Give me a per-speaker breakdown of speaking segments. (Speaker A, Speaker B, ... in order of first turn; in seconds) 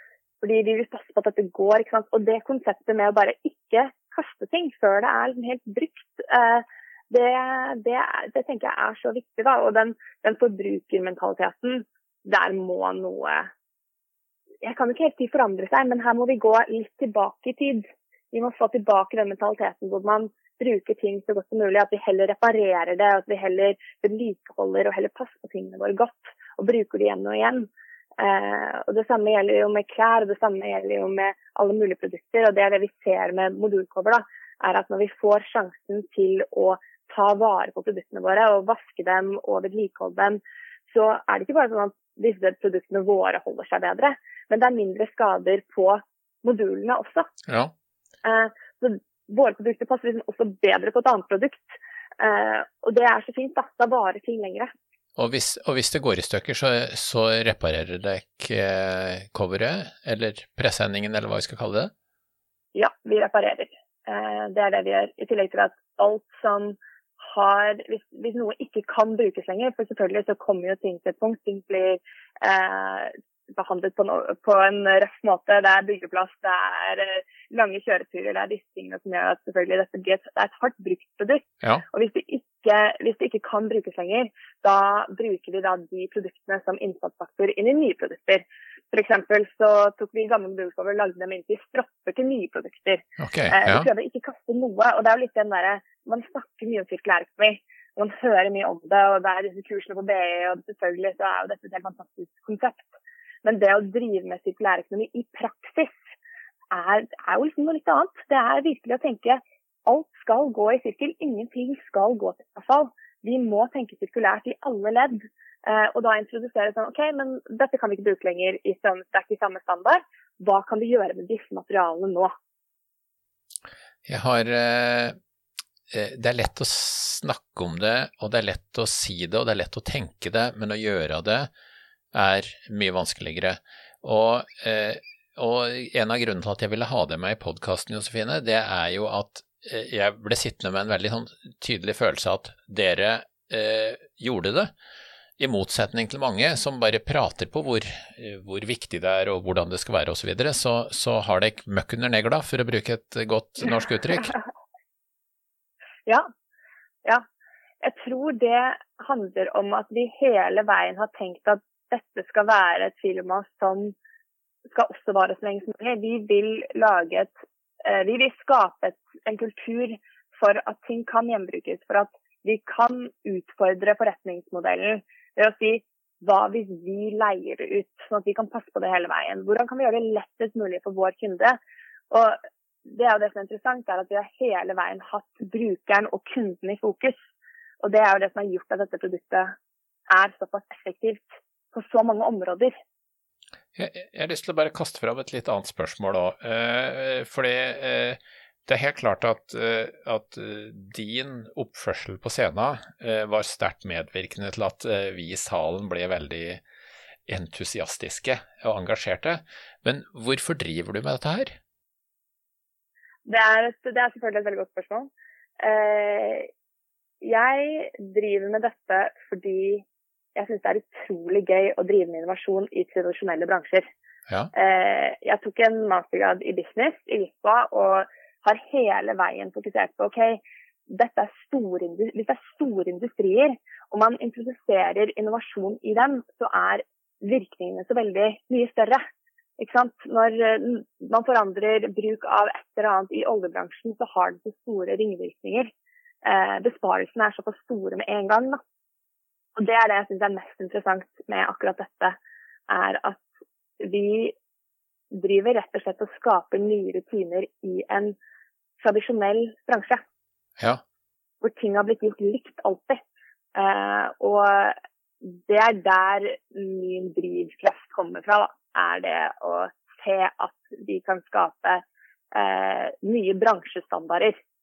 Speaker A: 0.4-13.5, 14.6-47.3, 48.2-54.7, 62.7-102.9, 103.4-106.0, 106.7-122.3, 157.8-163.9, 164.7-181.6, 182.1-187.2, 187.8-189.5, 190.1-192.7, 213.2-216.5, 217.2-223.9, 224.5-239.0, 239.6-245.7, 246.2-248.6, 249.6-252.2, 252.7-253.3, 253.8-254.3, 255.1-258.2, 258.8-260.0, 261.4-274.4
Speaker B: 47.5-47.7, 55.1-61.9, 93.2-93.9, 124.0-125.1, 125.9-131.5, 132.1-144.7, 145.4-154.3, 193.8-206.6, 207.3-211.6